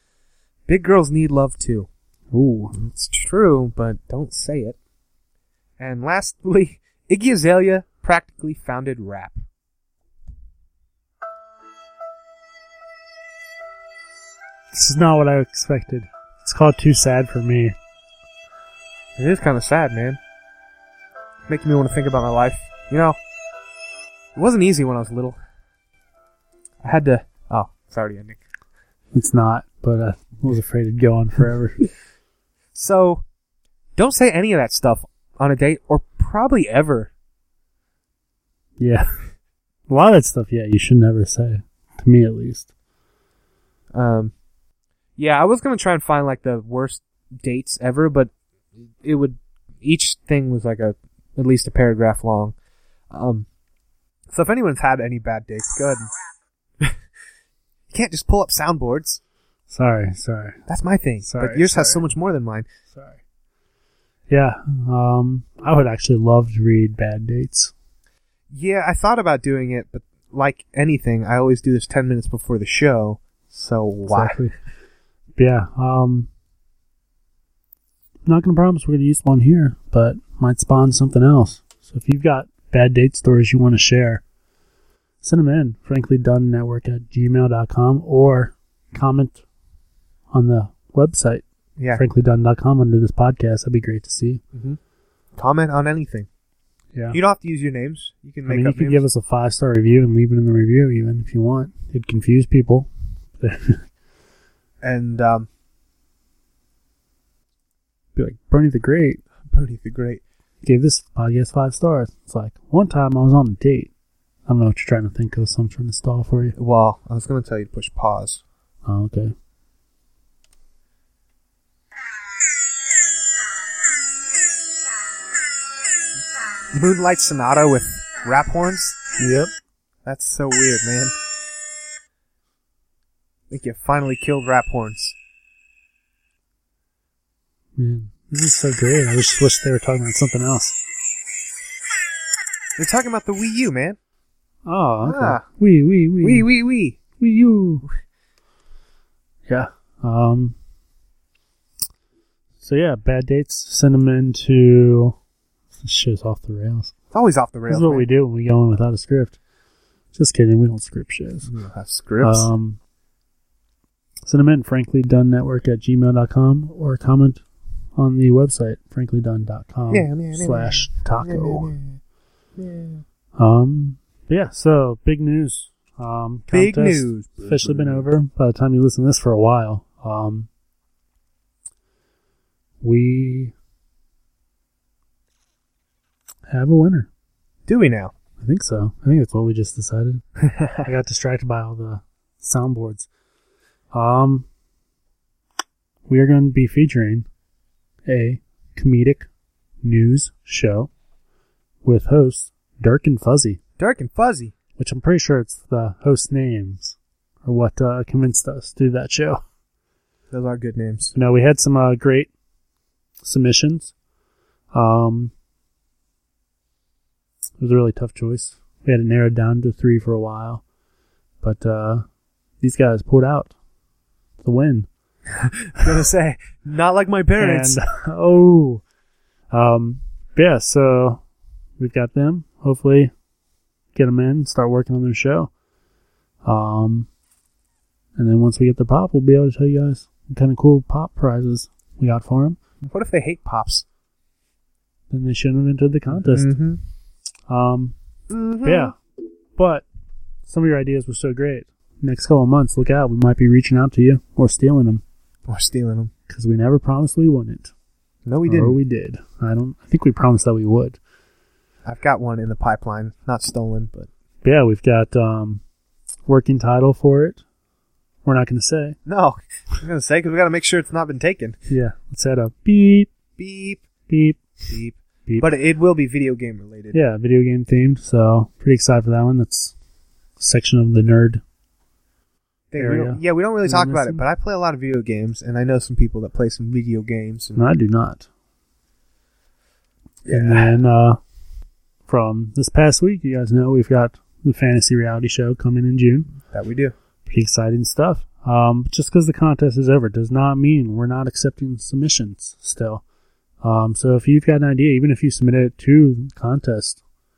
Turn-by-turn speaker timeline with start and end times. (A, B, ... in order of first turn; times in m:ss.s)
0:00.7-0:01.9 A
0:02.3-0:02.8 B
0:02.7-0:04.8 A
0:05.8-0:09.4 A
0:14.7-0:17.7 B
0:19.2-0:20.2 A
0:21.5-0:23.2 A
0:24.4-0:25.4 A
0:26.8-0:28.4 A
0:29.1-0:31.9 B
0:32.7-0:33.2 A
0:34.0-0:37.1 A
0:38.8-0:39.1 B
0:39.9-0:42.7 B
0:43.9-0:44.3 A
0:45.2-0:48.3 A
0:49.0-0:52.5 A
0:53.1-0:53.5 A
0:54.3-0:56.1 A
0:57.9-0:59.2 A
0:59.7-1:00.6 B
1:00.7-1:02.6 A
1:01.2-1:02.0 B
1:02.9-1:03.2 B
1:04.3-1:07.7 B
1:08.5-1:14.4 A
1:14.1-1:14.5 B
1:15.4-1:16.3 B
1:18.2-1:24.2 B
1:25.2-1:29.4 B
1:30.3-1:34.4 B
1:31.8-1:32.0 A
1:34.5-1:34.8 A
1:35.4-1:36.3 A
1:37.1-1:39.0 A
1:38.4-1:43.8 B
1:44.8-1:45.5 A
1:48.1-1:49.2 B
1:49.4-1:50.2 A
1:50.6-1:53.9 B
1:54.5-1:56.6 B
1:56.6-1:58.4 A
1:58.8-1:59.3 B
2:06.7-2:09.0 A
2:09.2-2:09.5 B
2:10.0-2:11.1 A
2:13.5-2:15.2 A
2:17.8-2:20.8 B
2:22.8-2:24.0 A
2:24.6-2:26.5 B
2:25.0-2:25.4 A
2:26.2-2:27.0 A
2:27.2-2:27.8 B
2:29.5-2:30.6 B
2:32.6-2:35.2 B
2:35.8-2:36.9 B
2:37.1-2:38.0 A
2:37.7-2:39.4 B
2:40.1-2:41.5 B
2:41.4-2:42.5 A
2:42.2-2:42.8 B
2:44.2-2:47.4 B
2:48.0-2:51.7 B
2:49.9-2:52.0 A
2:52.6-2:53.0 A
2:53.4-3:00.5 B
2:56.5-2:58.1 A
3:02.8-3:03.5 B
3:06.5-3:07.1 B
3:07.7-3:08.1 A
3:08.4-3:10.2 B
3:10.5-3:10.8 A
3:10.8-3:13.1 B
3:13.9-3:14.5 B
3:16.1-3:17.3 B
3:18.0-3:19.3 B
3:19.8-3:20.9 B
3:21.8-3:23.6 B
3:23.8-3:24.5 A
3:24.8-3:29.4 B
3:30.3-3:31.1 A
3:31.1-3:32.3 B
3:33.2-3:33.9 B
3:34.7-3:35.3 B
3:37.6-3:40.6 B
3:41.4-3:42.0 B
3:42.6-3:43.5 B
3:44.4-3:44.9 B
3:45.3-3:47.8 A
3:47.4-3:48.8 B
3:49.5-3:51.2 B
3:51.8-3:53.1 B
3:53.9-3:55.5 B
3:56.4-3:57.1 B
3:58.2-4:02.6 B
4:02.8-4:03.8 A
4:05.1-4:06.5 B
4:06.1-4:06.8 A
4:07.5-4:07.9 B
4:08.3-4:08.9 A
4:08.6-4:09.0 B
4:09.6-4:09.8 B
4:10.4-4:15.0 B
4:15.5-4:16.1 A
4:16.3-4:17.7 B
4:18.2-4:18.8 A
4:18.4-4:21.0 B
4:21.8-4:24.1 A
4:24.4-4:25.6 B
4:26.3-4:27.4 B
4:28.2-4:29.0 B
4:29.0-4:31.6 A
4:31.7-4:33.1 B
4:33.4-4:33.8 A
4:34.1-4:34.6 B
4:34.7-4:37.0 A
4:36.9-4:39.8 B
4:40.4-4:41.4 B
4:42.7-4:47.6 A
4:42.8-4:44.2 B
4:47.5-4:48.3 B
4:50.2-4:51.2 B
4:50.3-4:50.7 A
4:52.1-4:56.3 B
4:56.5-4:56.9 A
4:57.2-5:03.0 B
5:03.6-5:07.0 B